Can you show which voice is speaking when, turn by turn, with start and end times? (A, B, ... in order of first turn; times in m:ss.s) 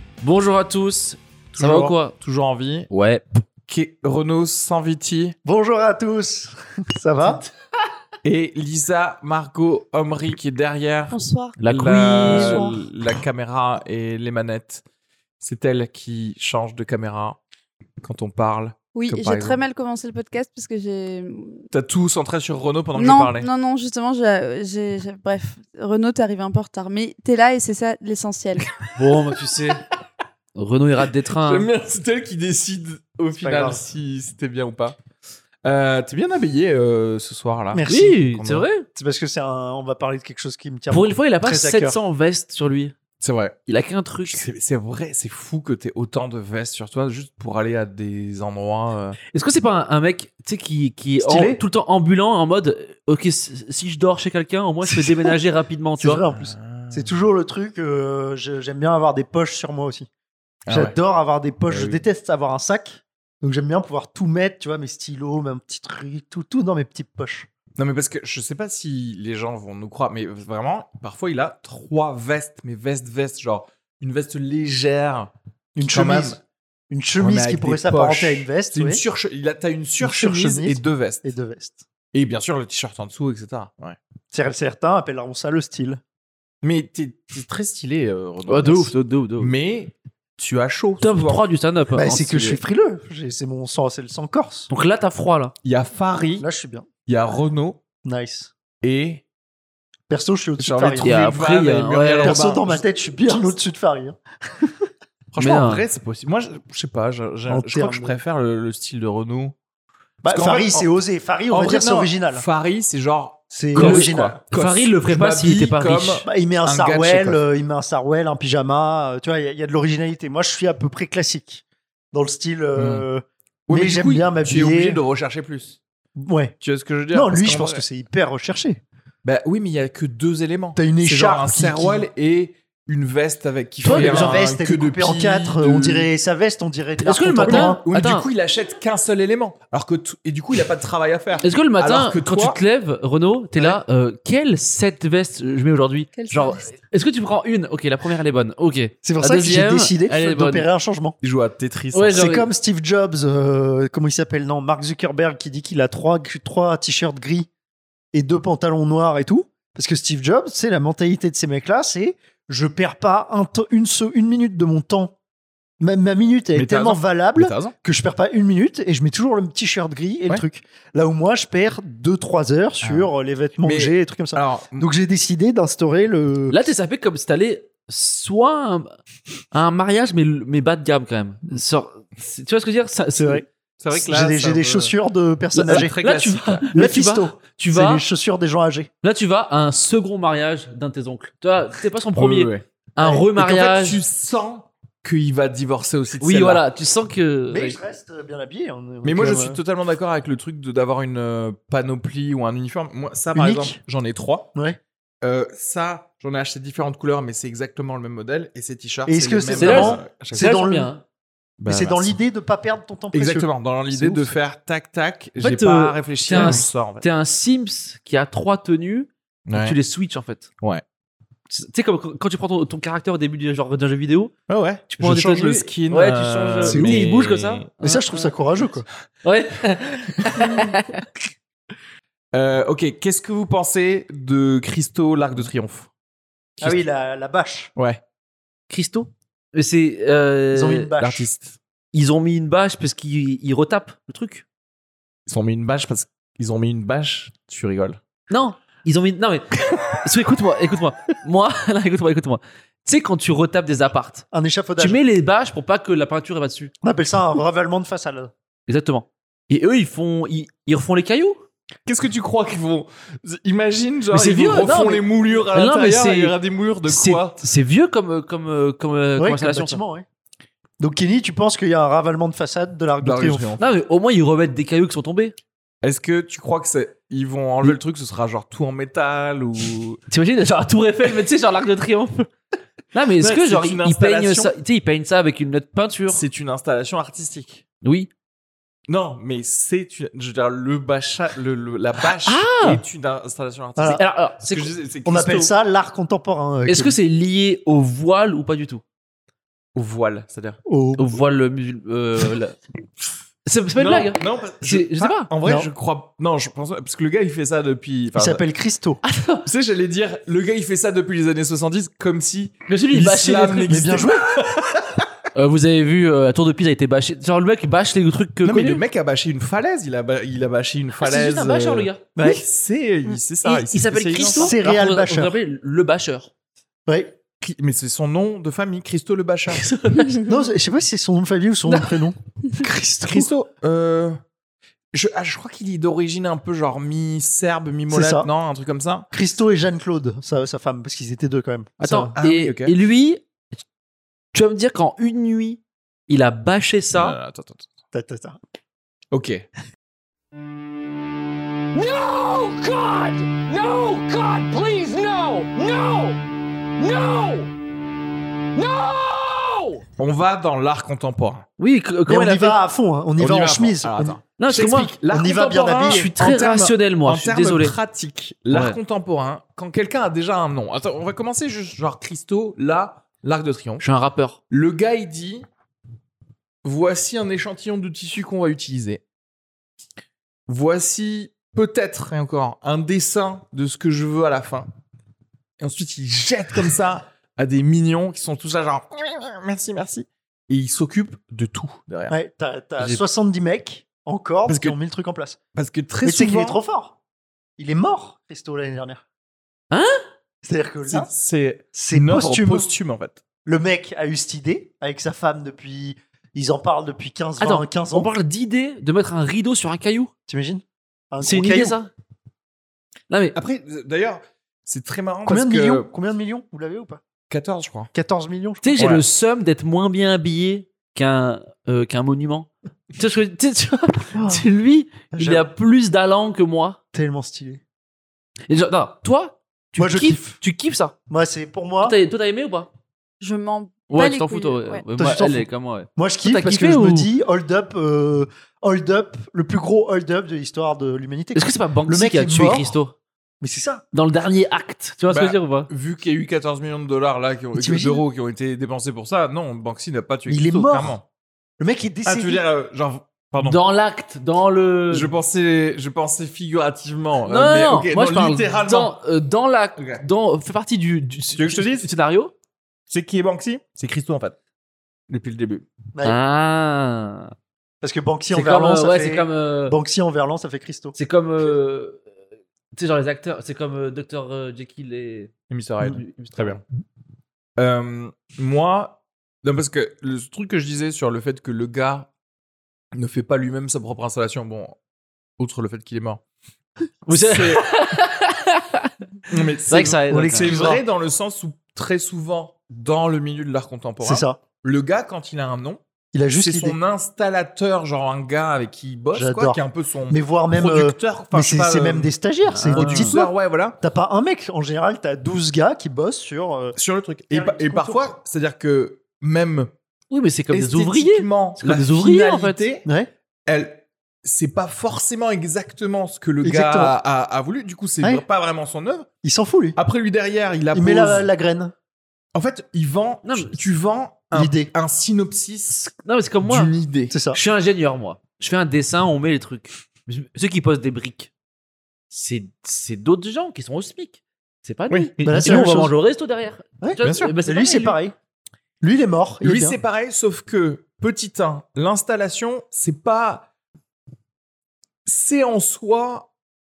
0:00.2-0:02.1 A
0:01.5-0:02.9 B
0:02.9-0:03.4 A
0:03.7-0:05.3 B
0:05.4-0:07.4 C
0:08.2-0:11.2 B
0:11.1-0:11.6 D
0:11.6-0:12.8 A
0:11.7-0:14.8 B
0:12.2-0:12.8 D
0:15.4-0:17.4 B
0:18.0-0:19.6 B
0:18.9-0:21.7 D
0:21.7-0:23.5 B
0:22.9-0:28.7 D
0:28.9-0:29.8 A
0:30.5-0:31.7 A
0:31.4-0:35.0 B
0:33.4-0:33.8 C
0:35.6-0:38.7 B
0:37.7-0:38.1 C
0:37.9-0:38.8 A
0:38.9-0:42.0 C
0:40.9-0:42.9 A
0:43.2-0:43.6 B
0:43.7-0:44.4 A
0:44.3-0:49.2 B
0:49.3-0:56.2 A
0:51.2-0:51.6 C
0:54.9-0:55.3 C
0:56.0-1:00.1 C
0:56.3-0:57.1 B
1:00.7-1:01.0 B
1:00.7-1:07.5 C
1:01.7-1:02.0 B
1:07.8-1:16.4 B
1:15.7-1:16.4 C
1:16.9-1:19.0 C
1:17.2-1:21.3 B
1:20.0-1:21.8 C
1:22.1-1:24.0 B
1:24.3-1:26.0 C
1:26.6-1:31.4 B
1:28.5-1:29.5 A
1:31.0-1:32.6 A
1:31.9-1:34.7 C
1:34.7-1:35.5 A
1:35.6-1:36.4 B
1:36.4-1:36.9 C
1:37.0-1:37.8 B
1:38.0-1:38.5 C
1:38.8-1:39.2 B
1:40.1-1:41.2 C
1:40.6-1:42.8 B
1:41.0-1:42.4 A
1:42.2-1:44.9 C
1:45.3-1:49.5 B
1:45.4-1:45.8 A
1:47.5-1:48.2 C
1:50.2-1:52.4 C
1:50.2-1:50.8 B
1:51.5-1:57.4 B
1:53.5-1:54.4 C
1:53.7-1:56.2 A
1:56.2-2:05.0 C
2:02.8-2:03.1 B
2:03.7-2:05.8 B
2:06.2-2:06.5 C
2:06.6-2:07.8 B
2:07.1-2:08.8 C
2:09.2-2:16.1 B
2:10.8-2:12.0 C
2:13.8-2:17.8 C
2:13.8-2:14.4 A
2:17.0-2:18.3 A
2:17.4-2:22.6 B
2:21.4-2:30.6 A
2:29.0-2:31.1 C
2:31.2-2:32.2 B
2:31.9-2:32.5 A
2:32.1-2:37.5 C
2:38.1-2:45.1 C
2:45.8-2:56.6 C
2:46.5-2:47.7 B
2:52.8-2:53.1 B
2:53.6-2:54.9 B
2:56.5-2:59.0 A
2:59.5-3:03.4 A
3:03.2-3:05.9 C
3:03.8-3:04.9 B
3:05.5-3:08.0 A
3:05.7-3:06.7 B
3:06.7-3:08.9 C
3:09.0-3:14.0 A
3:12.2-3:16.6 B
3:16.2-3:17.8 A
3:17.5-3:19.6 C
3:19.0-3:24.5 B
3:23.3-3:23.8 C
3:24.5-3:24.8 C
3:25.2-3:30.6 B
3:29.0-3:30.9 C
3:29.6-3:31.0 A
3:31.6-3:32.2 B
3:31.6-3:34.3 C
3:33.1-3:37.0 B
3:35.4-3:40.5 A
3:36.3-3:36.7 C
3:39.5-3:39.8 B
3:41.5-3:44.3 A
3:44.5-3:47.7 B
3:44.9-3:48.0 A
3:46.6-3:47.1 C
3:47.8-3:48.8 C
3:49.2-3:51.0 A
3:50.2-3:50.8 B
3:52.3-3:55.9 B
3:56.6-3:57.7 C
3:57.8-3:58.0 B
3:58.7-4:00.9 A
4:00.5-4:01.3 C
4:01.0-4:01.6 B
4:01.9-4:04.4 A
4:05.3-4:08.0 B
4:08.3-4:14.2 A
4:14.3-4:15.0 C
4:14.8-4:16.7 A
4:16.8-4:18.3 C
4:18.7-4:21.4 A
4:21.8-4:27.4 B
4:24.1-4:26.3 A
4:26.9-4:29.8 A
4:29.2-4:30.0 C
4:30.8-4:33.6 C
4:33.0-4:33.6 B
4:33.6-4:35.3 A
4:35.8-4:40.0 B
4:40.1-4:42.3 A
4:42.9-4:46.2 A
4:43.2-4:44.5 B
4:46.1-4:47.6 B
4:47.8-4:48.1 A
4:48.9-4:55.5 B
4:52.2-4:52.8 A
4:53.8-4:54.0 C
4:53.9-4:54.7 A
4:55.0-4:57.0 C
4:56.6-4:58.8 A
4:59.7-5:00.6 B
5:00.6-5:01.1 C
5:01.0-5:02.6 A
5:03.4-5:05.3 A
5:03.8-5:08.4 B
5:05.4-5:05.7 C
5:08.2-5:09.0 C
5:09.0-5:09.4 A
5:09.4-5:15.1 B
5:12.7-5:13.8 A
5:13.6-5:14.3 C
5:15.3-5:18.8 A
5:18.4-5:24.6 B
5:21.0-5:22.0 A
5:22.2-5:22.4 C
5:23.4-5:26.3 A
5:24.2-5:25.3 C
5:26.9-5:27.1 C
5:27.4-5:29.6 B
5:29.5-5:30.2 A
5:30.2-5:33.3 C
5:31.7-5:31.9 A
5:33.1-5:34.2 B
5:34.9-5:39.1 B
5:37.9-5:38.3 C
5:39.1-5:42.1 C
5:41.8-5:43.2 A
5:42.2-5:42.7 B
5:44.3-5:47.2 A
5:46.9-5:47.7 B
5:47.9-5:48.4 C
5:49.1-5:49.4 B
5:51.7-5:56.2 A
5:56.8-5:57.5 A
5:58.5-5:59.8 A
6:00.0-6:01.4 B
6:01.6-6:02.6 A
6:02.0-6:06.0 C
6:03.2-6:13.8 B
6:04.4-6:04.9 A
6:05.8-6:07.7 A
6:08.5-6:08.8 A
6:13.8-6:14.4 A
6:14.5-6:15.4 B
6:16.6-6:19.0 B
6:20.5-6:24.7 B
6:25.6-6:32.1 B
6:32.1-6:35.4 C
6:34.5-6:34.8 B
6:35.5-6:36.6 B
6:36.0-6:37.0 C
6:37.6-6:39.0 C
6:39.7-6:40.0 A
6:40.4-6:41.1 C
6:40.9-6:43.2 B
6:41.7-6:42.7 C
6:43.4-6:48.1 C
6:47.4-6:50.1 A
6:50.3-6:51.8 C
6:51.2-6:51.9 A
6:53.1-6:53.4 A
6:53.3-6:55.9 B
6:55.2-6:57.0 C
6:57.3-6:57.9 B
6:57.9-6:58.8 C
6:58.6-7:06.8 A
6:58.8-6:59.0 B
7:04.1-7:04.4 C
7:05.1-7:05.4 C
7:06.9-7:07.6 C
7:08.5-7:10.9 A
7:09.8-7:10.4 C
7:11.1-7:12.0 C
7:11.8-7:12.7 A
7:13.2-7:14.8 D
7:13.9-7:17.1 A
7:15.0-7:22.7 C
7:21.3-7:22.9 A
7:23.4-7:23.8 C
7:23.9-7:25.7 A
7:25.1-7:31.0 B
7:27.5-7:28.0 C
7:30.3-7:31.0 C
7:31.6-7:32.4 C
7:32.0-7:33.6 B
7:33.4-7:35.1 A
7:34.9-7:38.9 B
7:37.3-7:42.3 A
7:39.8-7:40.0 B
7:41.4-7:41.9 B
7:42.9-7:44.4 B
7:45.1-7:45.7 B
7:46.0-7:47.3 A
7:47.8-7:51.0 C
7:48.3-7:49.8 A
7:50.9-7:52.0 A
7:52.8-7:56.6 A
7:55.5-7:56.6 B
7:57.6-8:02.1 B
8:02.9-8:04.8 B
8:05.4-8:06.2 B
8:07.1-8:08.9 A
8:07.1-8:07.7 B
8:09.3-8:22.1 B
8:09.7-8:10.8 A
8:10.1-8:10.8 C
8:14.0-8:14.4 C
8:16.1-8:16.8 C
8:19.1-8:26.8 C
8:22.5-8:23.1 A
8:22.7-8:23.8 B
8:26.8-8:29.7 B
8:27.3-8:28.1 C
8:30.1-8:32.6 A
8:30.5-8:32.9 B
8:32.8-8:33.1 C
8:33.4-8:39.1 B
8:36.4-8:36.9 C
8:39.2-8:39.8 C
8:39.8-8:41.3 B
8:40.7-8:41.7 C
8:42.3-8:45.7 B
8:43.2-8:43.6 A
8:44.3-8:44.7 C
8:45.7-8:46.7 A
8:46.4-8:47.1 B
8:47.1-8:47.4 C
8:47.3-8:51.3 A
8:52.1-8:58.0 A
8:54.9-8:55.7 B
8:55.2-8:55.9 C
8:56.8-8:58.1 C
8:57.0-8:57.3 B
8:58.8-8:59.8 C
8:59.4-9:03.5 B
9:05.0-9:06.3 B